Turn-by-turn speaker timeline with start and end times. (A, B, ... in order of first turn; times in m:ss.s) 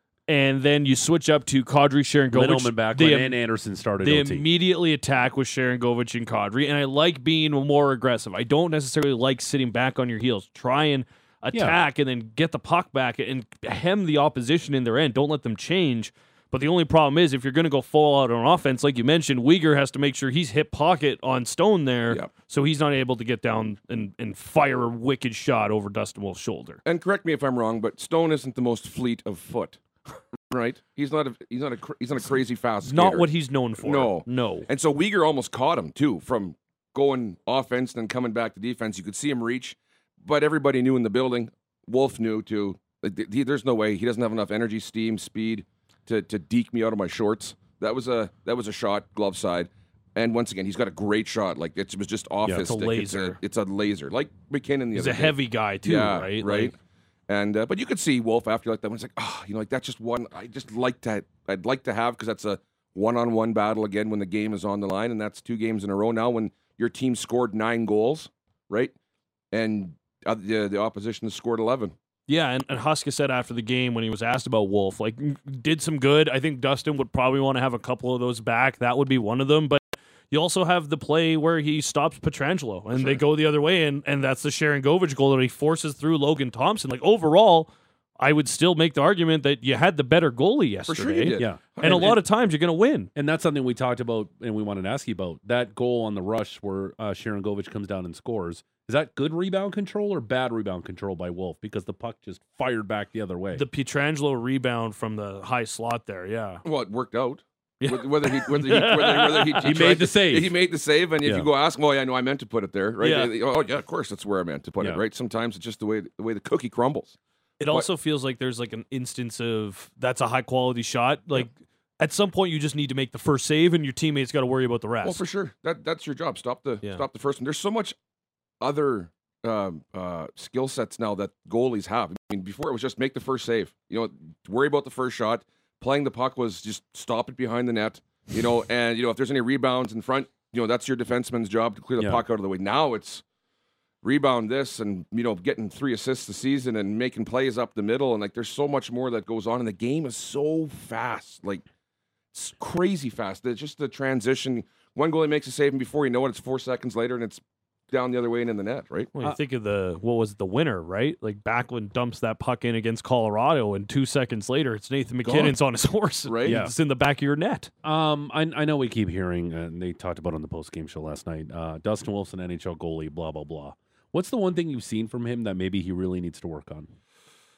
0:00.3-0:03.4 A
0:02.3-0:04.5 B
0:04.0-0:26.8 A
0:11.5-0:11.8 B
0:26.8-0:29.8 C
0:30.4-0:56.8 C
0:32.8-0:34.7 A
0:52.6-0:53.4 A
0:54.9-0:56.7 A
0:57.3-1:08.9 C
1:09.5-1:11.9 C
1:12.3-1:33.1 A
1:22.9-1:23.2 C
1:30.9-1:32.2 C
1:33.2-1:43.6 B
1:43.6-1:46.6 A
1:46.6-1:57.2 C
1:47.8-1:49.7 A
1:49.6-1:50.6 B
1:51.2-1:51.5 B
1:53.0-1:53.3 A
1:57.6-2:05.2 A
2:05.0-2:08.0 C
2:08.6-2:23.2 C
2:22.0-2:22.2 B
2:24.0-2:31.6 C
2:32.3-2:39.1 C
2:39.2-2:47.7 A
2:45.2-2:45.6 C
2:46.2-2:46.6 C
2:46.4-2:46.7 B
2:47.8-2:56.9 B